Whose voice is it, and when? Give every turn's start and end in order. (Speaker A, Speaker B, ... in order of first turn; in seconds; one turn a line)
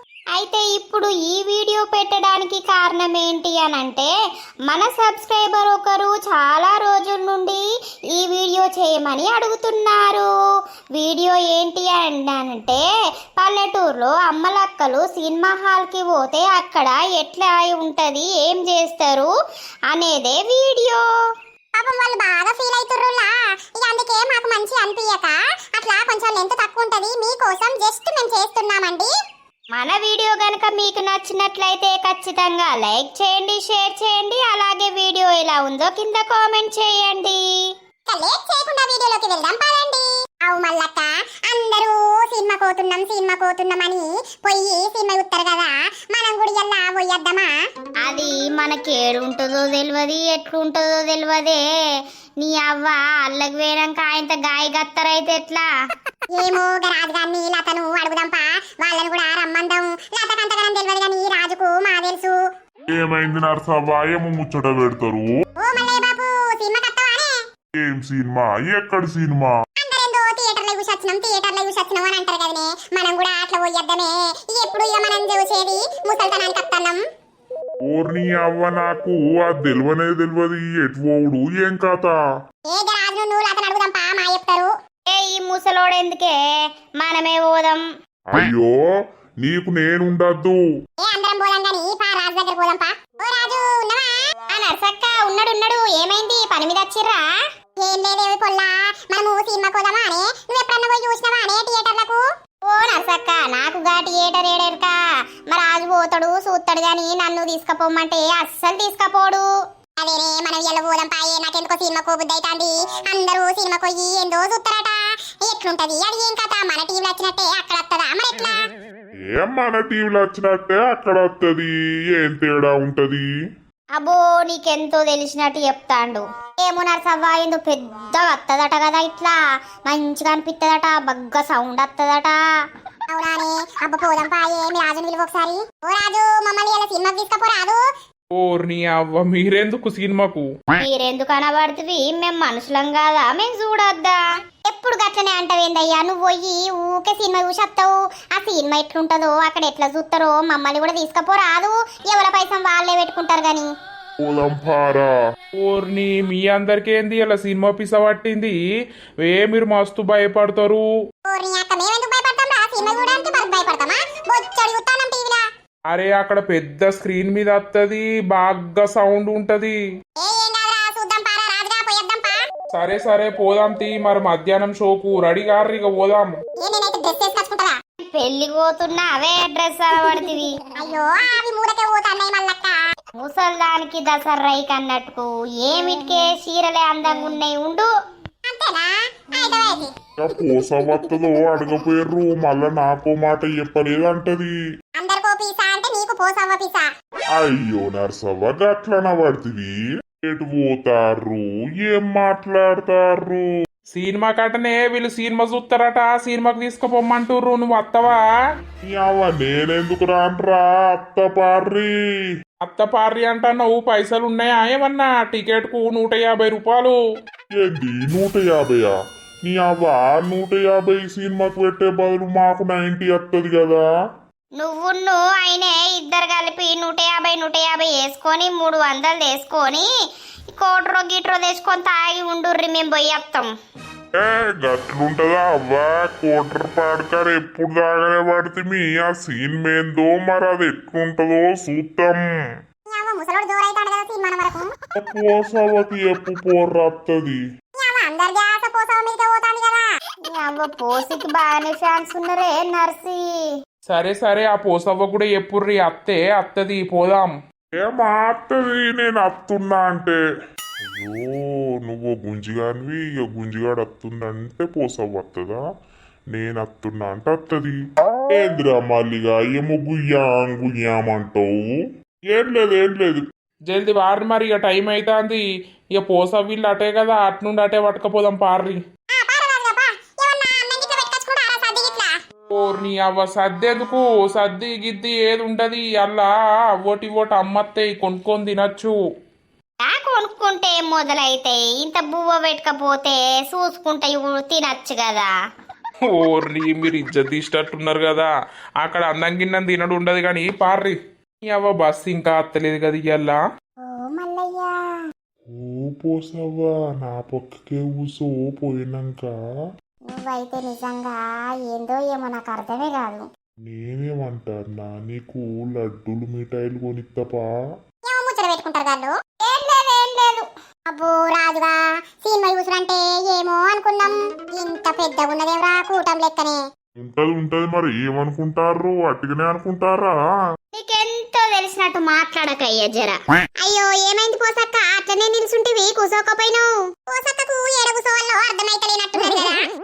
Speaker A: 0.3-4.1
Speaker A: 4.7-7.6
Speaker A: 8.1-10.3
Speaker A: 10.9-12.8
Speaker A: 13.4-19.3
Speaker A: 19.9-21.0
Speaker B: 21.7-29.1
Speaker A: 29.7-37.4
Speaker B: 38.1-47.5
Speaker A: 48.0-51.6
Speaker A: 52.4-55.6
Speaker B: 56.3-62.4
Speaker C: 62.9-65.3
Speaker B: 65.6-67.3
Speaker C: 67.7-69.5
Speaker B: 69.8-77.0
Speaker C: 77.8-82.2
Speaker B: 82.7-84.7
Speaker A: 85.1-86.4
Speaker A: 87.0-87.8
Speaker C: 88.3-88.7
Speaker C: 89.4-90.6
Speaker B: 91.0-94.1
Speaker A: 94.5-97.2
Speaker B: 97.8-102.2
Speaker A: 102.6-109.5
Speaker B: 110.0-118.7
Speaker C: 119.3-123.2
Speaker A: 124.0-132.4
Speaker B: 133.1-137.8
Speaker D: 138.3-140.4
Speaker A: 140.8-153.7
Speaker C: 154.2-155.1
Speaker D: 155.6-158.5
Speaker D: 159.2-160.8
Speaker B: 161.2-165.4
Speaker A: 162.8-163.2
Speaker D: 165.9-169.8
Speaker B: 170.2-172.4
Speaker D: 172.7-176.3
Speaker B: 176.6-177.7
Speaker A: 178.1-180.6
Speaker B: 180.7-182.8
Speaker A: 183.2-187.9
Speaker B: 188.5-189.9
Speaker A: 189.3-189.7
Speaker C: 190.2-194.5
Speaker B: 194.9-196.9
Speaker C: 197.3-203.4
Speaker D: 203.9-208.2
Speaker C: 208.8-211.9
Speaker D: 212.6-216.9
Speaker C: 217.6-218.9
Speaker C: 219.4-223.8
Speaker A: 224.6-229.9
Speaker A: 230.5-233.5
Speaker C: 234.2-242.2
Speaker B: 242.9-244.7
Speaker C: 244.9-247.4
Speaker B: 247.8-249.9
Speaker A: 250.2-253.3
Speaker D: 253.9-257.3
Speaker C: 257.8-260.2
Speaker C: 260.9-265.6
Speaker C: 266.3-267.7
Speaker C: 268.3-271.6
Speaker C: 272.3-273.2
Speaker D: 273.7-275.4
Speaker D: 276.0-278.8
Speaker B: 279.1-282.1
Speaker D: 282.5-288.9
Speaker A: 289.8-295.3
Speaker D: 296.1-298.3
Speaker D: 298.8-303.4
Speaker A: 303.8-304.8
Speaker C: 305.5-309.4
Speaker A: 310.1-313.3
Speaker C: 313.6-317.5
Speaker B: 318.1-319.1
Speaker A: 319.4-320.5
Speaker B: 320.9-326.6
Speaker C: 327.0-330.1
Speaker A: 330.7-336.7
Speaker B: 337.1-339.6